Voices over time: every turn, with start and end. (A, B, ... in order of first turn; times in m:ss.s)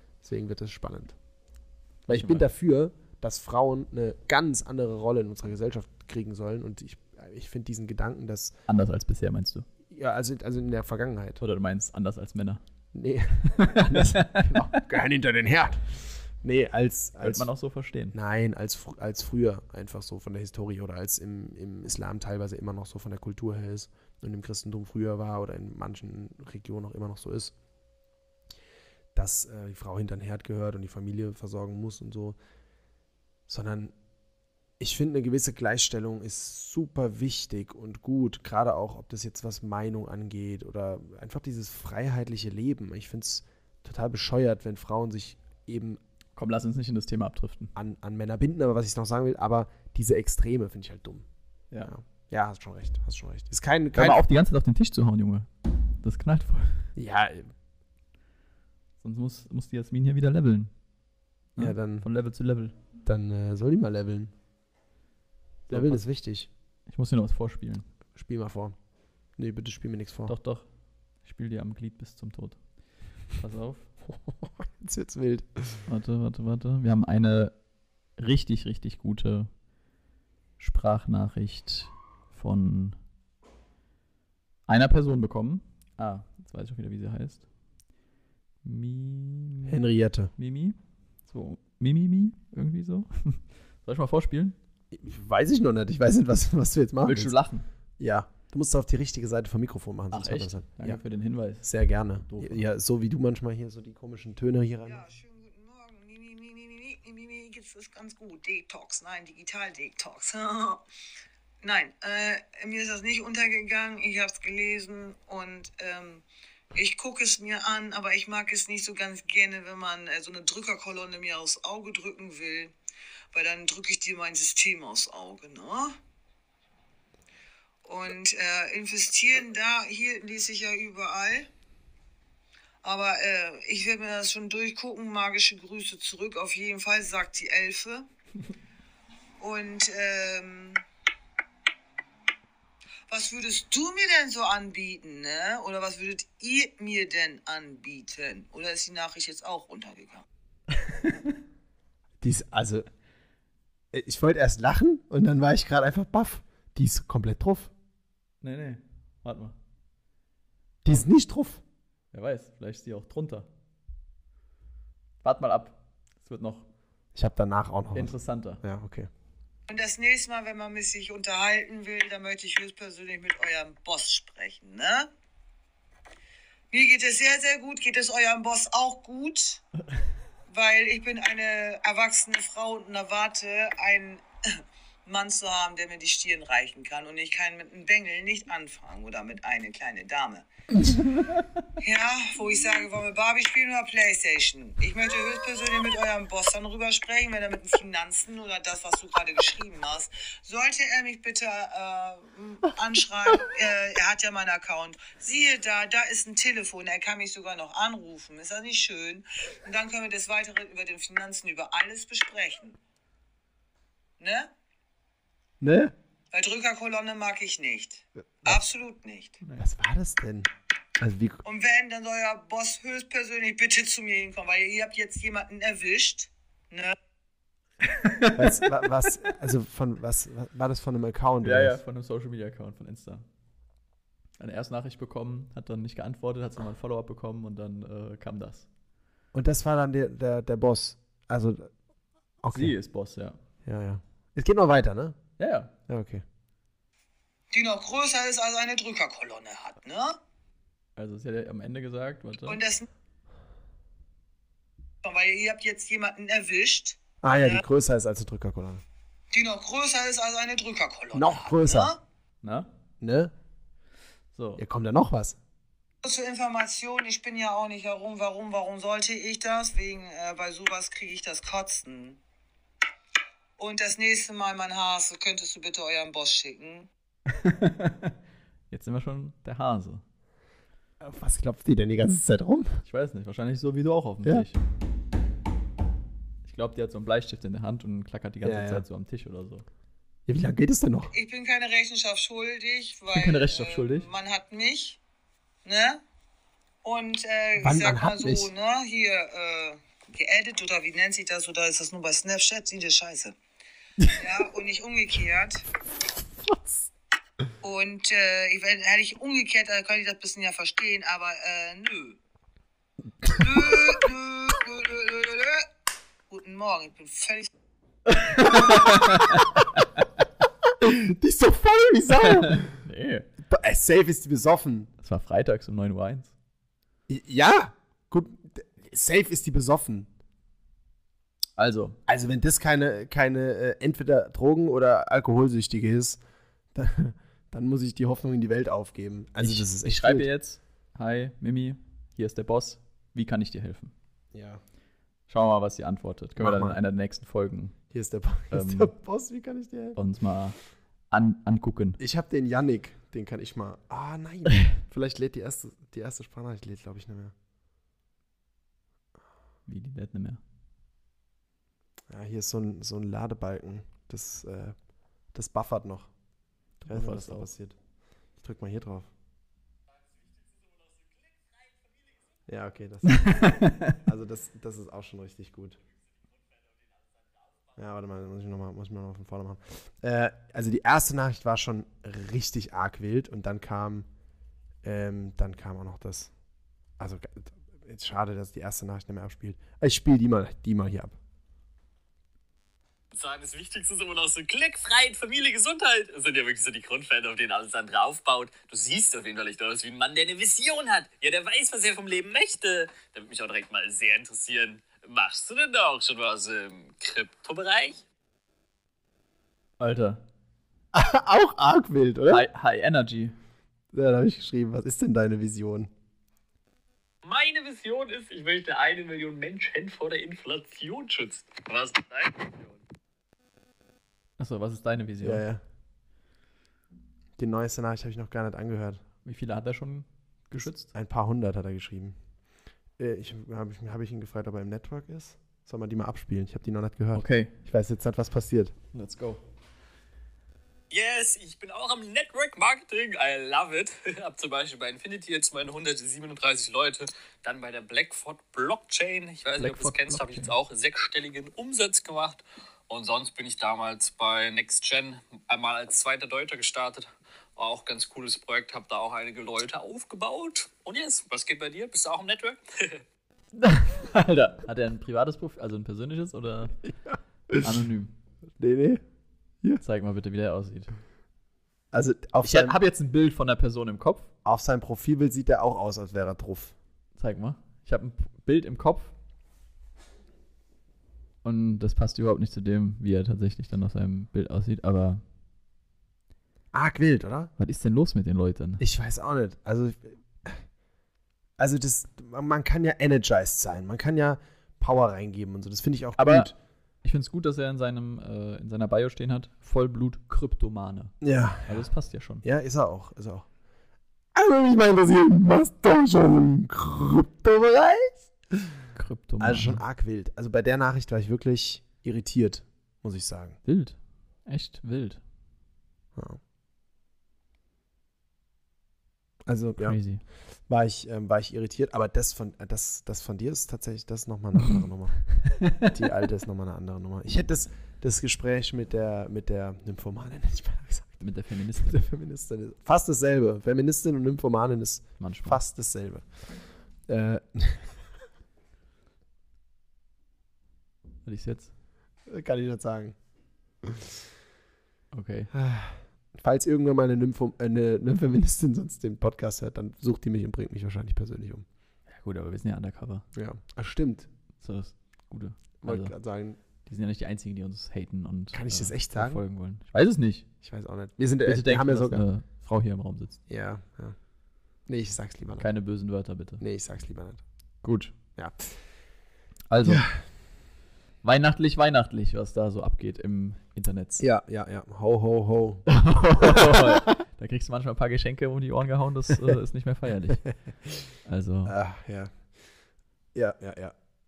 0:00.2-0:01.2 A
0:02.1-0:02.5 B
0:02.1-0:08.6 A
0:08.7-0:09.6 B
0:09.9-0:11.4 A
0:11.4-0:12.6 B
0:12.9-0:17.5 A
0:13.6-0:14.7 B
0:17.2-0:18.1 B
0:18.1-0:27.5 A
0:29.1-0:32.4 A
0:33.5-0:33.9 A
0:34.8-0:46.0 A
0:46.4-0:47.7 B
0:47.7-0:51.2 A
0:51.8-0:54.2 A
0:53.9-0:55.5 B
0:56.0-0:56.9 B
0:57.0-0:57.5 A
0:59.0-1:00.7 B
1:01.6-1:02.8 B
1:01.6-1:02.1 A
1:03.0-1:04.3 A
1:05.7-1:06.0 B
1:05.7-1:06.5 A
1:06.9-1:07.9 B
1:08.1-1:08.7 A
1:09.4-1:10.3 A
1:10.3-1:10.7 B
1:11.2-1:12.6 B
1:13.3-1:13.9 B
1:14.1-1:15.8 A
1:15.9-1:17.6 B
1:18.2-1:19.5 B
1:20.6-1:23.0 B
1:24.7-1:27.4 B
1:28.6-1:29.8 B
1:29.6-1:30.3 A
1:30.4-1:34.6 B
1:34.9-1:37.4 A
1:37.0-1:37.7 B
1:38.0-1:41.0 A
1:40.1-1:41.7 B
1:41.6-1:45.0 A
1:42.3-1:42.6 B
1:44.8-1:50.8 C
1:51.6-2:02.7 C
2:03.3-2:06.0 C
2:07.8-2:11.5 C
2:12.8-2:18.1 C
2:19.4-2:20.8 C
2:23.1-2:30.2 C
2:30.9-2:31.1 B
2:32.2-2:32.9 A
2:33.9-2:37.7 A
2:38.4-2:39.6 B
2:40.8-2:41.6 A
2:42.1-2:43.5 B
2:45.2-2:46.7 B
2:47.1-2:49.1 A
2:47.9-2:48.6 B
2:49.7-2:55.1 C
2:56.7-2:59.6 C
3:00.5-3:04.2 C
3:05.0-3:10.5 C
3:11.8-3:32.8 C
3:34.2-3:34.5 C
3:35.6-3:35.9 A
3:36.3-3:39.4 C
3:39.6-3:40.5 A
3:41.0-3:41.4 A
3:41.4-3:46.9 C
3:47.9-3:48.6 B
3:48.3-3:51.8 A
3:51.4-3:53.2 B
3:54.4-3:58.7 B
3:59.3-4:01.7 A
4:02.4-4:02.7 A
4:02.5-4:03.4 B
4:03.6-4:05.2 A
4:05.4-4:05.7 B
4:05.9-4:06.2 A
4:07.5-4:10.2 C
4:11.0-4:12.6 B
4:12.5-4:12.8 C
4:15.0-4:17.6 C
4:17.2-4:18.8 A
4:19.3-4:22.0 C
4:21.1-4:21.9 A
4:22.4-4:22.7 B
4:23.0-4:23.3 A
4:24.3-4:24.6 B
4:24.6-4:25.4 A
4:26.0-4:32.2 C
4:33.6-4:36.9 C
4:37.3-4:38.2 B
4:38.7-4:40.0 B
4:41.0-4:42.8 A
4:42.8-4:44.6 B
4:46.4-4:49.6 B
4:48.4-4:48.8 A
4:50.3-4:51.1 A
4:51.1-4:55.0 C
4:53.1-4:54.1 B
4:55.6-4:56.0 C
4:56.8-5:03.4 C
4:57.6-4:58.5 A
5:04.1-5:05.6 C
5:07.6-5:12.2 C
5:13.3-5:15.7 C
5:16.3-5:17.5 C
5:18.1-5:20.0 B
5:20.8-5:22.7 A
5:22.2-5:23.3 B
5:23.4-5:24.9 A
5:25.0-5:26.3 B
5:27.1-5:30.1 A
5:31.6-5:32.0 B
5:32.1-5:36.2 A
5:36.7-5:40.3 A
5:39.4-5:43.9 B
5:44.3-5:44.6 A
5:45.3-5:47.8 B
5:46.4-5:46.8 A
5:47.9-5:50.0 A
5:48.5-5:48.9 B
5:50.0-5:50.6 B
5:51.1-5:52.0 B
5:52.0-5:57.3 A
5:59.6-6:00.4 B
6:02.1-6:04.8 A
6:05.3-6:06.1 A
6:06.8-6:07.5 B
6:06.9-6:07.8 A
6:08.4-6:09.1 A
6:12.5-6:15.8 A
6:13.1-6:13.9 B
6:17.8-6:24.0 A
6:24.8-6:26.3 A
6:27.0-6:31.1 A
6:33.1-6:48.0 D
6:49.8-6:50.2 B
6:50.9-6:52.4 A
6:52.2-6:53.4 B
6:53.9-6:55.9 A
6:57.2-7:02.8 D
7:04.4-7:05.4 B
7:05.2-7:05.6 A
7:07.4-7:09.0 A
7:09.2-7:10.9 B
7:10.5-7:12.1 A
7:13.0-7:18.7 A
7:17.1-7:17.5 B
7:18.9-7:19.4 B
7:20.9-7:43.0 D
7:29.6-7:30.5 B
7:43.6-7:46.8 B
7:46.9-7:47.7 A
7:47.6-7:48.1 B
7:48.6-7:49.0 A
7:49.8-7:50.9 B
7:51.9-7:52.8 A
7:52.4-7:54.3 B
7:54.4-7:56.7 A
7:57.2-7:59.1 B
8:01.4-8:05.2 B
8:06.7-8:07.5 A
8:07.6-8:08.8 B
8:08.8-8:10.6 A
8:11.6-8:16.5 A
8:16.2-8:16.5 B
8:17.0-8:22.4 B
8:21.2-8:21.9 A
8:22.4-8:23.4 A
8:24.3-8:28.3 A
8:28.9-8:29.8 B
8:29.4-8:33.6 A
8:33.6-8:35.2 B
8:39.4-8:40.0 A
8:39.8-8:40.2 B
8:40.7-8:51.2 A
8:45.6-8:45.9 B
8:51.2-8:52.0 B
8:51.8-8:56.5 A
8:55.2-8:55.6 B
8:57.0-8:57.9 A
9:01.2-9:01.7 B
9:02.3-9:03.1 A
9:05.1-9:05.5 B
9:05.5-9:11.6 A
9:12.1-9:13.2 B
9:13.3-9:14.3 A
9:14.6-9:16.1 B
9:15.8-9:16.6 A
9:16.8-9:20.5 B
9:18.5-9:19.4 A
9:20.6-9:22.2 A
9:21.4-9:23.4 B
9:23.5-9:24.2 A
9:24.9-9:25.7 A
9:25.6-9:26.6 B
9:26.6-9:27.4 A
9:27.8-9:28.1 B
9:28.4-9:28.7 A
9:29.7-9:30.0 B
9:29.8-9:30.2 A
9:31.2-9:34.2 B
9:34.2-9:37.0 A
9:35.9-9:40.5 B
9:41.2-9:41.7 B
9:41.6-9:42.6 A
9:43.3-9:43.9 A